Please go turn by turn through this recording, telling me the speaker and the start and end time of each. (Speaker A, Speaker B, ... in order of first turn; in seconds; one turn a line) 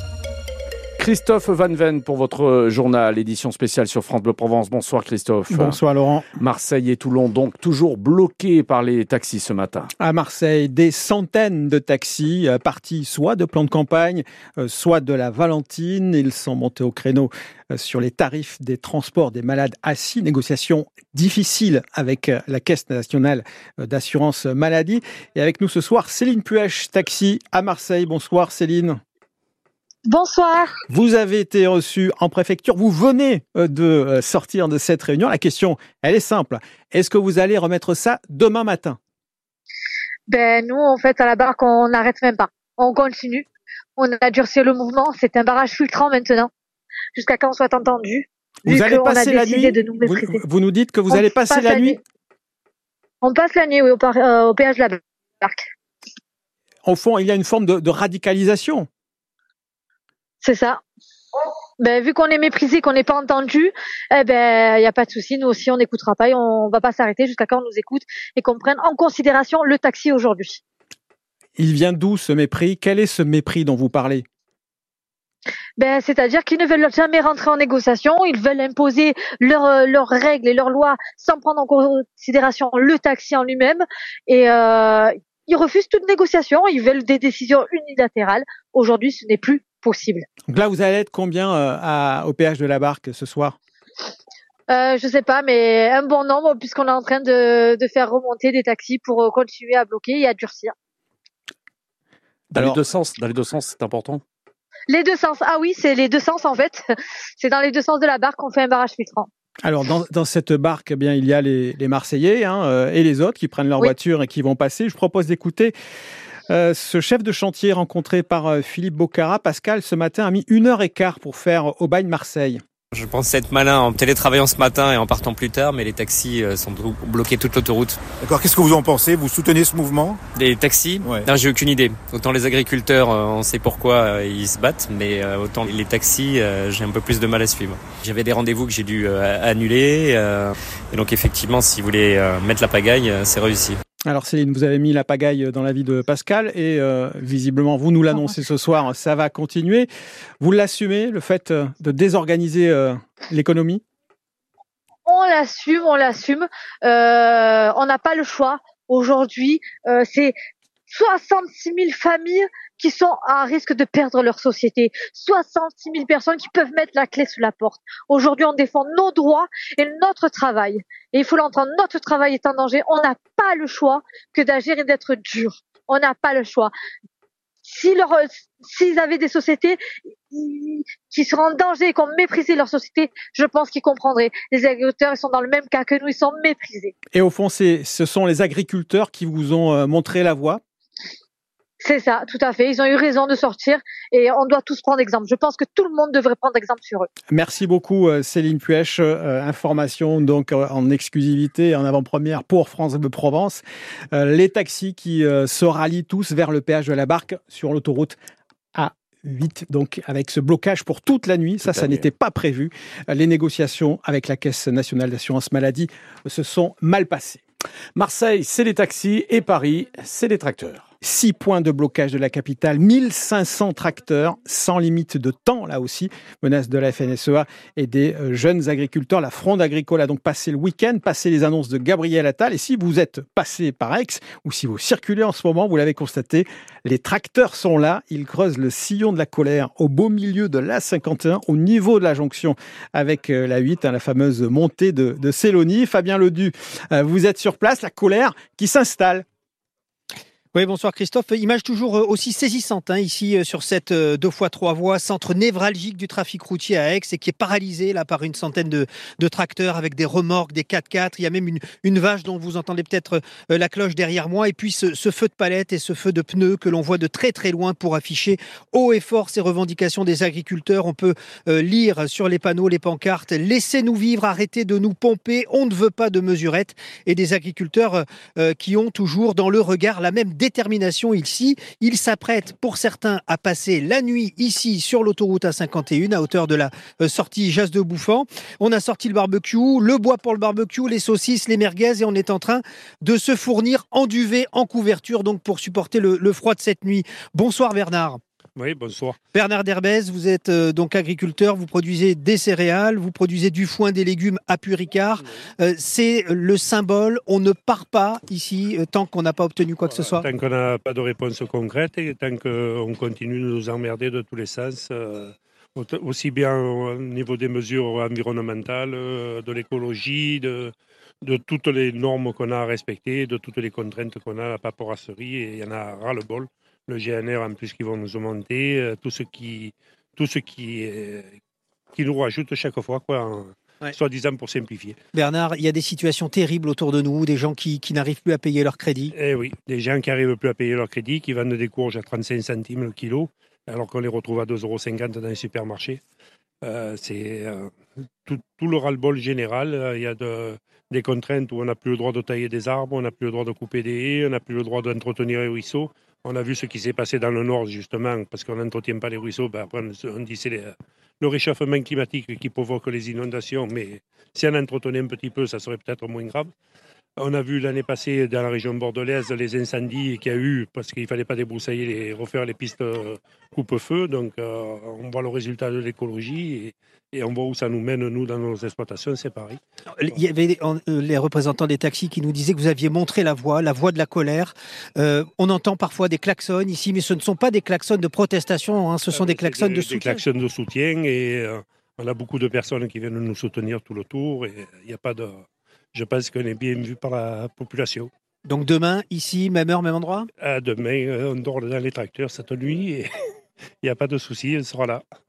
Speaker A: 1.0-5.8
Speaker B: 5.5-6.2
Speaker A: 6.4-9.9
Speaker B: 10.0-29.0
Speaker C: 30.1-30.7
Speaker B: 30.9-39.0
Speaker C: 40.3-43.5
Speaker C: 44.0-46.5
Speaker C: 47.1-50.4
Speaker B: 48.7-52.0
Speaker C: 51.1-52.0
Speaker C: 53.2-55.6
Speaker B: 56.9-58.9
Speaker C: 60.4-60.8
Speaker C: 61.8-70.6
Speaker B: 71.6-74.2
Speaker C: 75.8-90.2
Speaker B: 90.5-93.5
Speaker C: 94.7-100.7
Speaker B: 102.5-102.8
Speaker A: 102.5-104.2
Speaker C: 104.9-109.3
Speaker B: 109.6-115.7
Speaker B: 116.5-122.6
Speaker D: 122.9-128.0
Speaker E: 128.2-130.2
Speaker D: 130.3-143.8
Speaker E: 130.9-131.3
Speaker B: 144.1-149.9
Speaker B: 150.4-153.8
Speaker C: 155.1-160.3
Speaker C: 160.9-176.7
Speaker C: 177.6-179.8
Speaker C: 180.3-186.9
Speaker B: 187.1-190.6
Speaker C: 191.8-197.1
Speaker B: 197.3-208.2
Speaker B: 208.7-217.4
Speaker A: 211.6-212.1
Speaker A: 217.9-220.8
Speaker B: 221.0-249.2
Speaker F: 250.5-298.2
Speaker G: 298.6-299.1
Speaker F: 299.3-310.3
Speaker G: 309.8-331.3
Speaker G: 331.9-334.9
Speaker F: 335.1-339.1
Speaker G: 339.1-346.0
Speaker G: 346.6-347.7
Speaker G: 348.2-366.5
Speaker G: 367.2-379.6
Speaker F: 379.9-390.2
Speaker G: 389.1-395.4
Speaker G: 395.9-398.1
Speaker F: 398.4-400.3
Speaker G: 400.4-403.1
Speaker G: 403.8-405.0